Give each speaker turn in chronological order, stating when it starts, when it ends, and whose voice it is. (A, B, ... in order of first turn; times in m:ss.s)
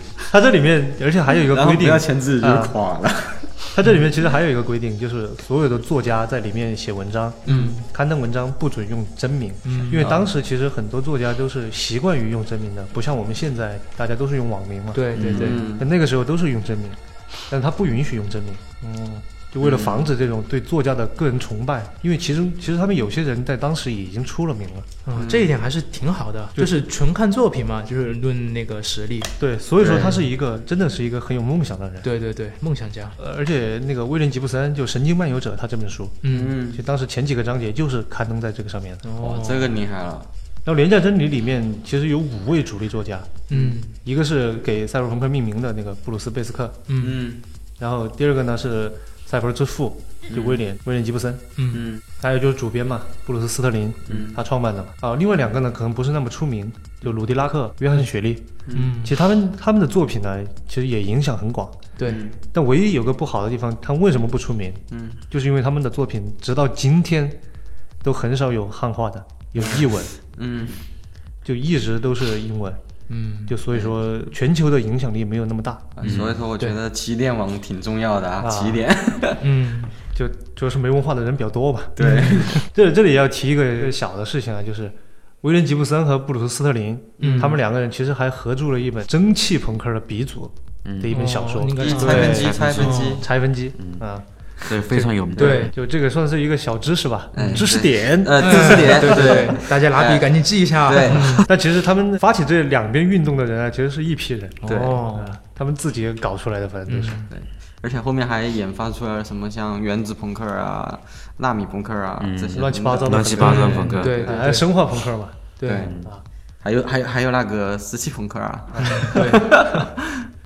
0:00.2-0:02.8 A
0:01.3-0:03.7 B
0:03.7-0:24.9 A
0:07.4-0:07.8 B
0:07.4-0:07.8 C
0:09.6-0:10.2 C
0:10.0-0:10.3 B
0:14.9-0:15.7 C
0:15.1-0:15.6 D
0:15.2-0:15.9 B
0:19.6-0:20.1 B
0:25.0-0:30.3 C
0:25.1-0:25.5 B
0:26.6-0:26.8 A
0:29.4-0:32.1 A
0:29.8-0:30.2 B
0:32.0-0:33.2 C
0:33.2-0:36.2 A
0:36.2-0:36.6 C
0:36.3-0:36.8 B
0:36.7-0:39.0 A
0:39.0-0:39.7 C
0:39.2-0:40.3 B
0:40.6-0:43.4 A
0:43.5-0:44.0 C
0:43.5-0:43.8 B
0:43.9-0:46.8 A
0:46.9-0:47.2 C
0:47.0-0:47.4 B
0:47.8-0:51.5 A
0:50.3-0:50.6 B
0:51.6-0:51.8 C
0:51.7-0:52.0 B
0:52.2-1:01.8 A
0:54.1-0:54.4 B
0:58.6-0:58.9 B
0:58.7-0:59.2 C
1:02.0-1:02.2 C
1:02.0-1:02.4 B
1:02.4-1:07.4 A
1:04.9-1:05.2 B
1:08.0-1:10.1 A
1:09.6-1:10.8 B
1:11.4-1:12.8 A
1:13.1-1:13.6 C
1:13.5-1:16.0 A
1:16.0-1:19.4 B
1:16.0-1:16.4 D
1:16.1-1:16.8 C
1:18.4-1:18.8 A
1:19.4-1:19.9 C
1:20.1-1:22.0 A
1:22.0-1:22.6 B
1:22.0-1:22.6 C
1:22.5-1:34.2 A
1:27.2-1:27.6 C
1:27.2-1:27.6 B
1:30.8-1:31.2 D
1:31.1-1:33.2 C
1:31.8-1:33.3 B
1:32.3-1:32.9 D
1:33.8-1:34.0 D
1:34.6-1:35.7 D
1:34.9-1:35.7 C
1:35.4-1:39.5 A
1:37.3-1:41.4 B
1:38.4-1:41.5 C
1:41.1-1:47.2 A
1:44.6-1:45.4 C
1:44.7-1:44.9 B
1:46.9-1:47.3 C
1:47.3-1:54.5 B
1:52.2-1:54.2 D
1:52.6-1:55.4 A
1:53.4-1:54.7 C
1:55.6-1:55.9 C
1:55.6-1:56.1 B
1:55.8-1:56.1 D
1:56.6-2:00.2 B
1:58.7-1:59.8 A
1:58.8-1:59.5 C